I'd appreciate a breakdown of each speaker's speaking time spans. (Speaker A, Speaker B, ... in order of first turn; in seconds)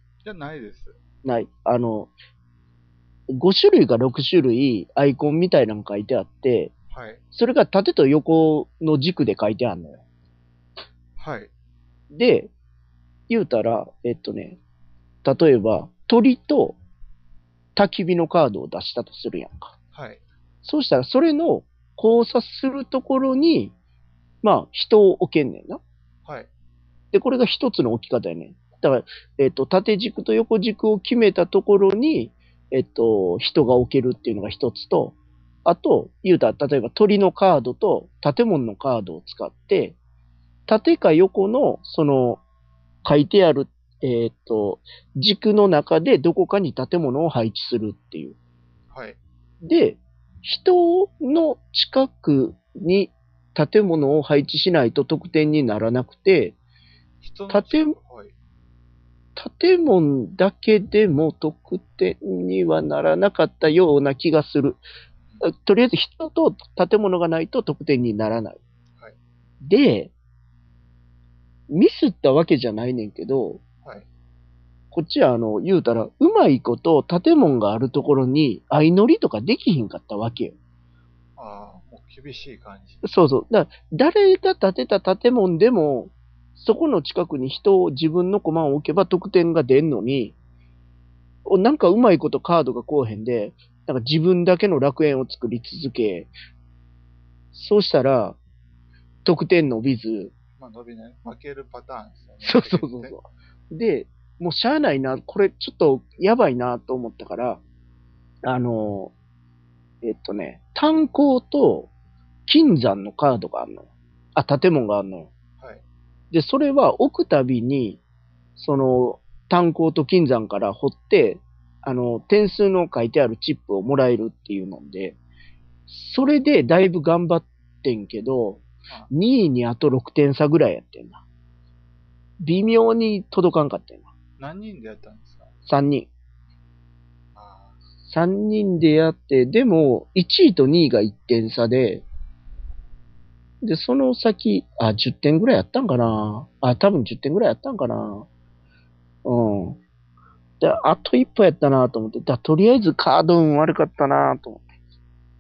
Speaker A: 0.2-1.0, 6.9-7.2, 11.2-11.5, 19.9-20.2, 48.9-49.2, 57.2-58.3, 81.4-83.0, 100.6-103.2, 134.4-135.5, 137.3-137.8
Speaker B: 1.2-2.1, 3.3-6.7, 7.3-10.0, 12.1-12.5, 13.3-14.6, 15.2-16.8, 17.8-19.8, 20.6-23.7, 24.4-25.8, 27.1-40.0, 40.7-42.4, 43.0-48.4, 49.6-56.6, 57.5-58.0, 59.4-64.8, 65.4-68.6, 69.6-70.1, 71.7-73.6, 74.9-80.6, 83.0-90.3, 91.5-96.3, 97.5-98.4, 99.2-100.3, 102.4-107.6, 108.4-109.1, 110.0-111.9, 112.5-115.3, 116.3-118.0, 118.6-125.2, 125.9-131.2, 132.4-134.1, 135.7-136.1, 138.1-142.0, 143.6-148.3, 149.2-149.8, 150.6-154.7